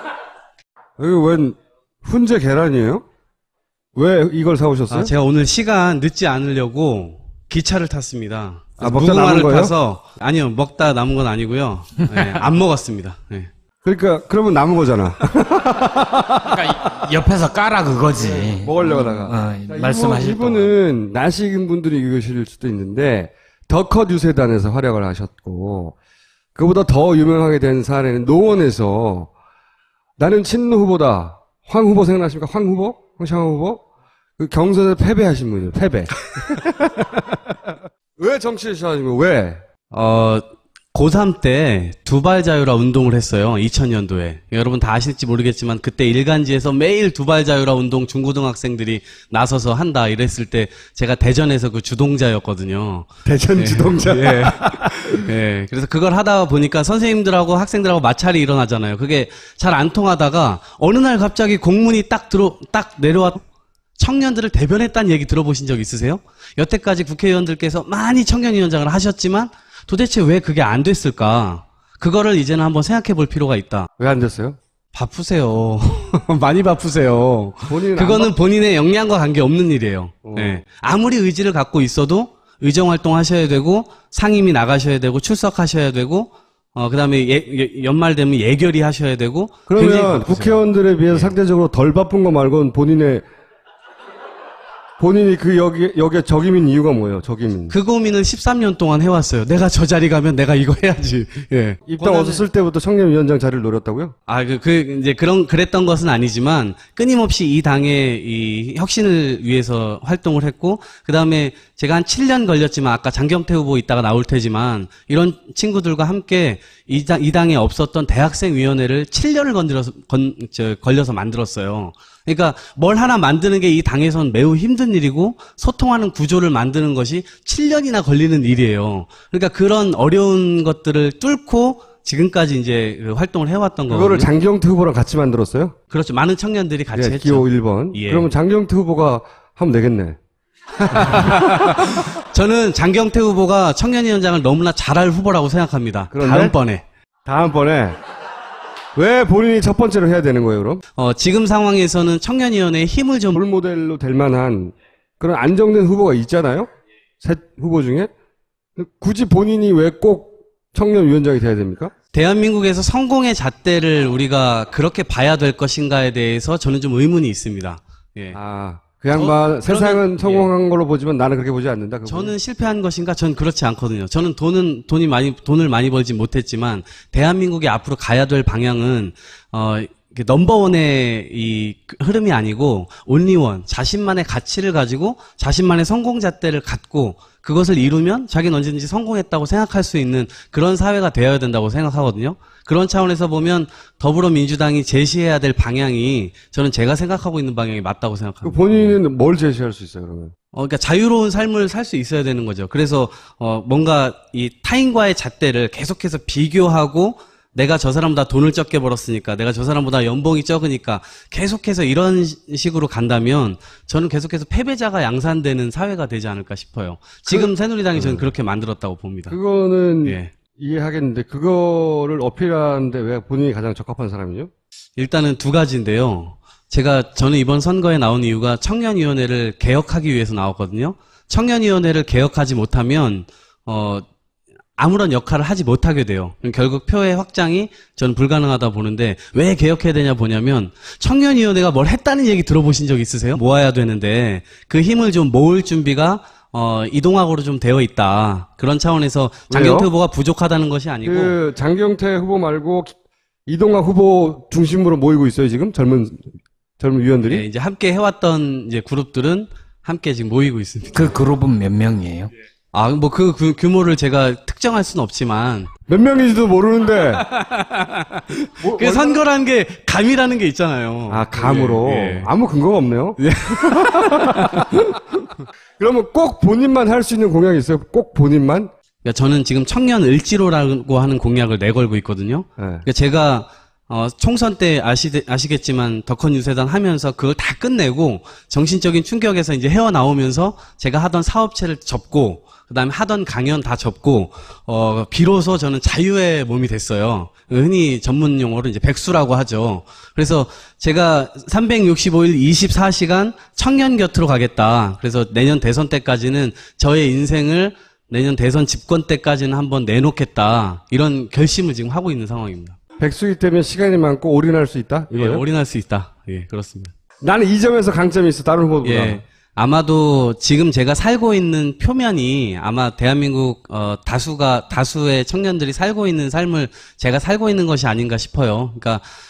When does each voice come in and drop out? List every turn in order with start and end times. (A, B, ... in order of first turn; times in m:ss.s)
0:01.0-0:03.0 A
0:04.0-0:05.1 A
0:04.9-0:13.5 B
0:08.8-0:09.8 A
0:12.1-0:12.4 C
0:13.8-0:16.7 A
0:16.5-0:20.7 C
0:18.2-0:26.0 A
0:26.6-0:29.3 A
0:30.2-0:33.8 A
0:34.4-0:39.6 A
0:39.9-1:03.4 B
0:53.2-0:55.3 A
1:04.0-1:13.9 B
1:14.0-1:14.6 A
1:14.9-1:31.4 B
1:17.7-1:18.3 A
1:20.2-1:20.6 A
1:29.7-1:33.2 A
1:35.0-1:37.7 A
1:37.7-1:42.4 B
1:41.9-1:44.1 A
1:44.3-2:14.3 B
2:13.9-2:15.8 A
2:15.9-2:18.3 B
2:16.9-2:20.2 A
2:20.8-2:21.8 A
2:20.9-2:26.8 B
2:26.1-2:26.6 A
2:27.3-2:28.0 A
2:29.0-2:30.8 A
2:31.0-2:33.4 B
2:33.4-2:36.7 A
2:37.2-2:38.1 A
2:38.8-2:41.9 A
2:42.1-2:48.4 B
2:48.3-2:52.3 A
2:49.1-2:50.5 B
2:52.1-3:19.0 B
3:18.4-3:20.3 A
3:20.5-3:39.4 B
3:37.3-3:38.3 A
3:39.3-3:44.5 A
3:40.0-3:40.3 B
3:45.0-3:54.1 B
3:54.8-4:11.4 B
4:09.5-4:09.9 A
4:11.0-4:12.9 A
4:13.5-4:16.3 A
4:16.8-4:17.4 A
4:17.3-4:21.1 B
4:20.9-4:22.3 C
4:22.7-4:25.7 B
4:25.9-4:27.2 A
4:27.2-4:32.3 B
4:28.6-4:29.2 A
4:31.1-4:35.2 A
4:33.2-4:34.7 B
4:35.8-4:38.7 A
4:39.0-5:12.8 B
4:42.6-4:42.9 A
5:13.0-5:15.4 A
5:15.1-5:16.9 B
5:17.2-5:19.2 A
5:18.8-5:29.0 B